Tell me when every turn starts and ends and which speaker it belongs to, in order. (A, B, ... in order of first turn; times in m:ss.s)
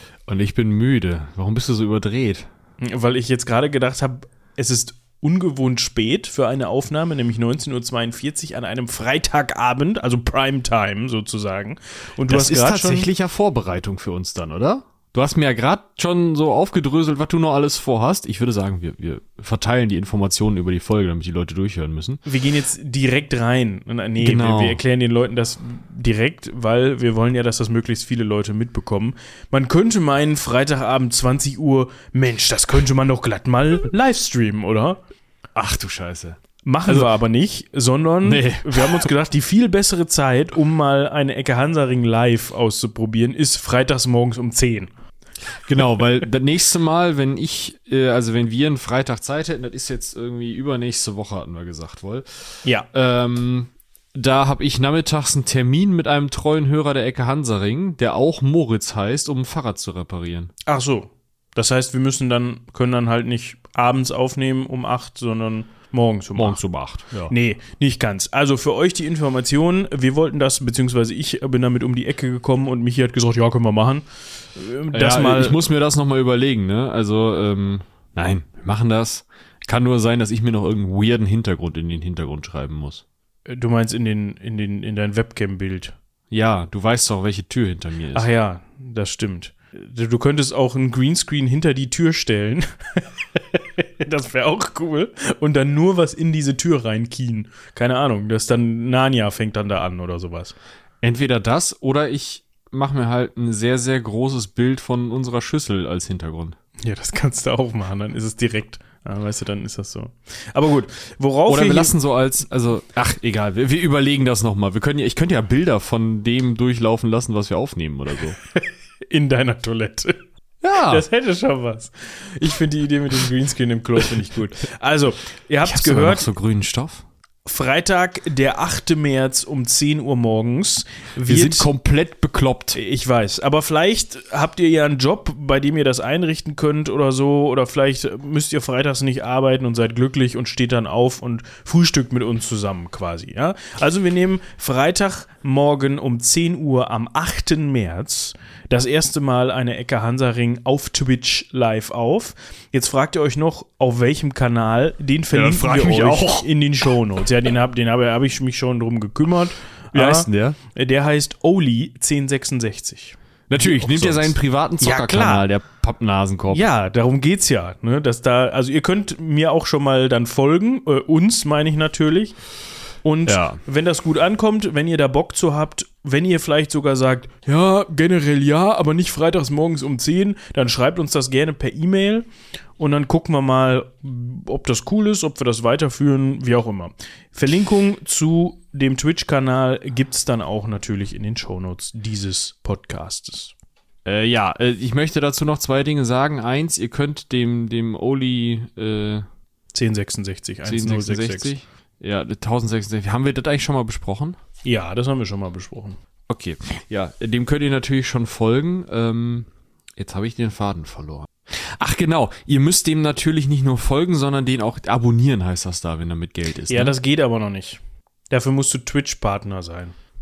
0:00.3-0:02.5 A
0:02.8-0:13.1 B
0:12.3-0:22.2 A
0:22.3-0:35.0 B
0:24.2-0:24.8 A
0:35.6-0:37.1 A
0:36.6-0:44.9 B
0:38.2-0:39.1 A
0:45.6-1:00.5 A
1:00.7-1:06.6 B
1:06.4-1:07.3 A
1:07.3-1:15.6 B
1:14.9-1:23.0 A
1:23.5-1:26.0 B
1:26.3-1:28.3 A
1:28.1-1:40.6 B
1:41.0-1:46.6 A
1:46.8-1:52.0 B
1:51.5-1:58.4 A
1:59.1-2:00.2 B
2:00.6-2:01.1 A
2:00.8-2:06.3 B
2:05.6-2:07.1 A
2:07.5-2:11.7 B
2:11.3-2:12.8 A
2:12.7-2:45.5 B
2:35.3-2:36.5 A
2:39.9-2:40.6 A
2:43.5-2:46.6 A
2:46.5-2:52.4 B
2:53.0-3:13.5 B
2:53.3-2:53.6 A
3:14.0-3:19.3 A
3:19.7-3:21.5 B
3:20.6-3:24.4 A
3:24.6-3:26.0 B
3:26.3-3:37.0 A
3:36.7-3:40.0 B